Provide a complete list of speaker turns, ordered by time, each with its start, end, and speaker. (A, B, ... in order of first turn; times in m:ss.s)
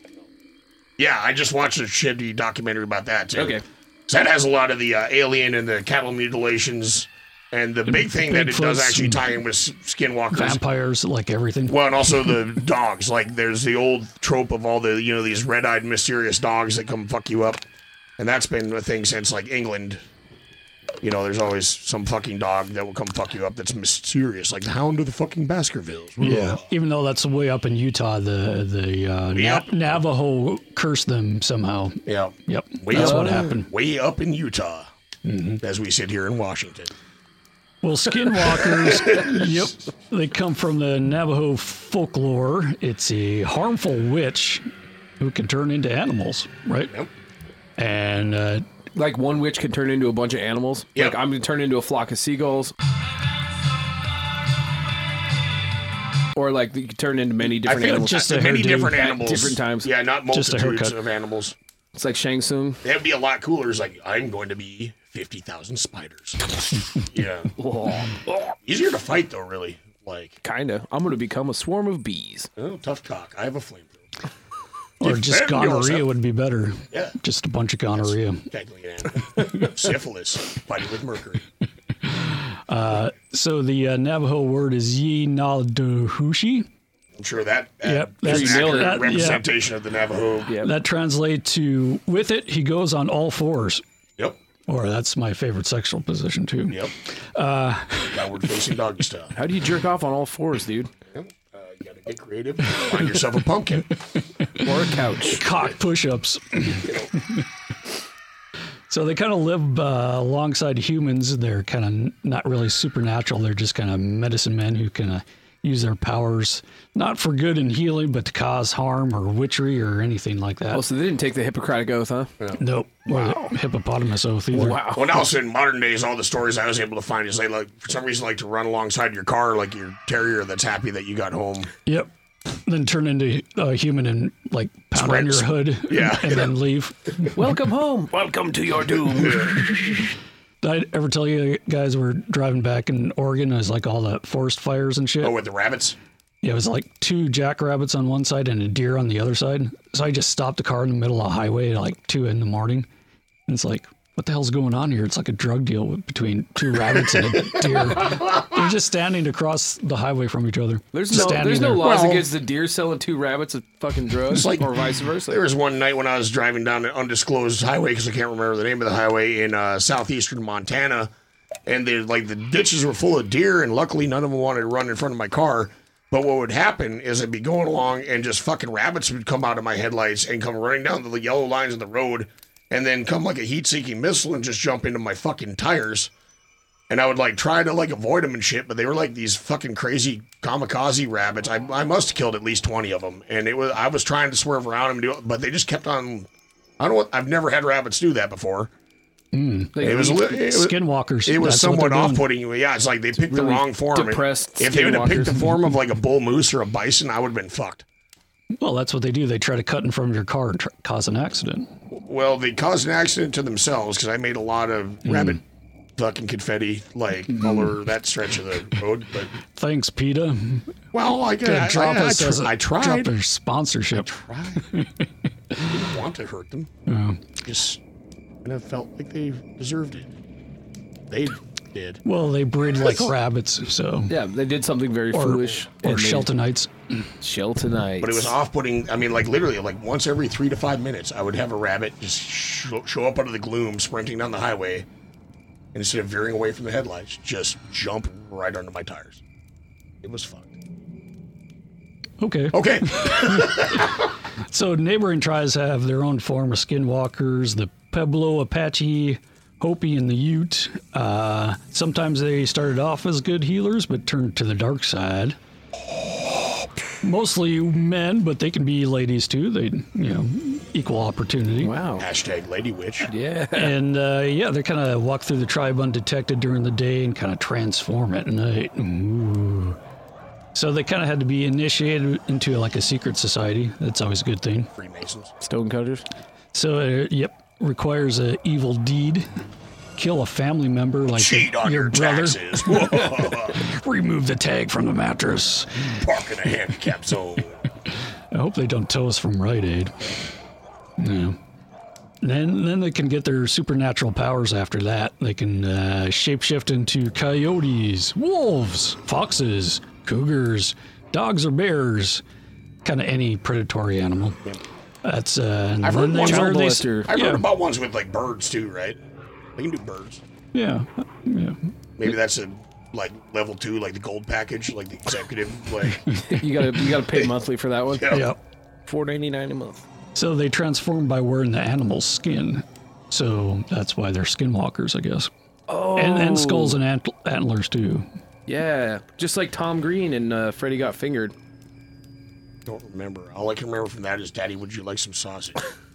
0:01.0-0:10.6 A
0:03.4-0:03.6 B
0:07.9-0:09.2 C
0:10.3-0:12.4 C
0:11.7-0:17.6 A
0:18.2-0:20.0 A
0:21.0-0:26.6 A
0:26.2-0:33.7 C
0:29.3-0:30.0 A
0:32.0-0:34.9 A
0:33.0-0:33.3 B
0:35.2-0:35.6 C
0:35.6-0:36.9 A
0:37.8-0:44.6 C
0:38.5-0:39.4 A
0:45.2-0:46.9 C
0:47.8-0:48.6 C
0:48.9-0:52.7 B
0:56.3-0:59.9 B
0:57.6-1:01.5 A
0:57.8-0:59.0 C
1:00.3-1:01.0 C
1:01.9-1:02.8 B
1:02.8-1:07.5 A
1:07.6-1:08.5 B
1:08.6-1:10.4 A
1:10.4-1:12.5 B
1:12.6-1:14.0 A
1:15.0-1:16.1 A
1:15.0-1:18.4 C
1:18.0-1:21.4 A
1:22.0-1:26.7 C
1:27.2-1:30.5 A
1:27.8-1:29.5 C
1:28.2-1:29.1 B
1:30.6-1:33.8 C
1:34.7-1:38.3 C
1:38.1-1:39.3 A
1:39.3-1:40.9 B
1:41.1-1:43.9 A
1:44.6-1:45.4 B
1:45.2-1:47.4 C
1:46.8-1:47.1 A
1:48.9-2:00.8 C
2:00.7-2:02.3 B
2:02.6-2:04.8 C
2:04.5-2:05.1 B
2:04.8-2:11.7 A
2:11.8-2:17.3 C
2:15.0-2:16.5 A
2:17.3-2:19.5 B
2:19.4-2:20.0 C
2:20.6-2:25.3 C
2:25.2-2:26.0 A
2:26.4-2:32.9 C
2:33.5-2:41.9 C
2:40.9-2:45.4 B
2:41.1-2:42.3 A
2:44.3-2:51.1 A
2:51.7-3:06.1 A
3:06.9-3:16.3 A
3:16.8-3:18.7 A
3:19.3-3:22.2 C
3:19.8-3:20.3 B
3:19.8-3:27.8 A
3:23.2-3:25.4 B
3:28.6-3:31.7 C
3:31.9-3:35.4 A
3:35.0-3:35.4 C
3:36.0-3:39.3 A
3:37.3-3:37.7 C
3:39.4-3:40.7 C
3:40.9-3:43.1 A
3:41.4-3:45.0 C
3:44.0-3:44.6 A
3:45.6-3:46.7 A
3:46.9-3:47.2 C
3:47.4-3:47.8 A
3:48.4-3:50.1 A
3:51.1-3:52.0 A
3:52.0-3:54.2 C
3:52.8-3:53.1 A
3:54.1-3:56.3 B
3:55.1-3:56.7 C
3:57.2-3:58.3 B
3:58.0-4:04.8 A
4:05.7-4:09.2 A
4:10.0-4:10.5 A
4:12.2-4:13.8 C
4:12.5-4:14.0 A
4:14.4-4:25.4 C
4:27.0-4:31.7 C
4:31.6-4:32.0 B
4:32.0-4:33.1 A
4:33.1-4:33.7 B
4:33.5-4:39.8 C
4:40.5-4:44.7 C
4:44.8-4:45.3 A
4:45.4-4:46.0 B
4:46.5-4:49.3 C
4:50.0-4:55.9 C
4:51.2-4:53.6 A
4:55.9-4:57.5 A
4:58.3-5:00.1 C
5:01.0-5:01.4 C
5:02.2-5:12.2 C
5:12.8-5:14.4 C
5:15.0-5:17.4 C
5:15.8-5:16.6 A
5:16.2-5:17.1 B
5:17.1-5:19.0 A
5:19.6-5:20.2 A
5:20.5-5:21.6 C
5:22.0-5:26.1 A
5:26.2-5:28.2 B
5:27.9-5:28.3 A
5:28.1-5:28.4 C
5:28.8-5:29.8 B
5:30.1-5:35.3 C
5:35.7-5:36.8 B
5:36.0-5:38.1 C
5:38.5-5:41.3 B
5:42.6-5:45.6 A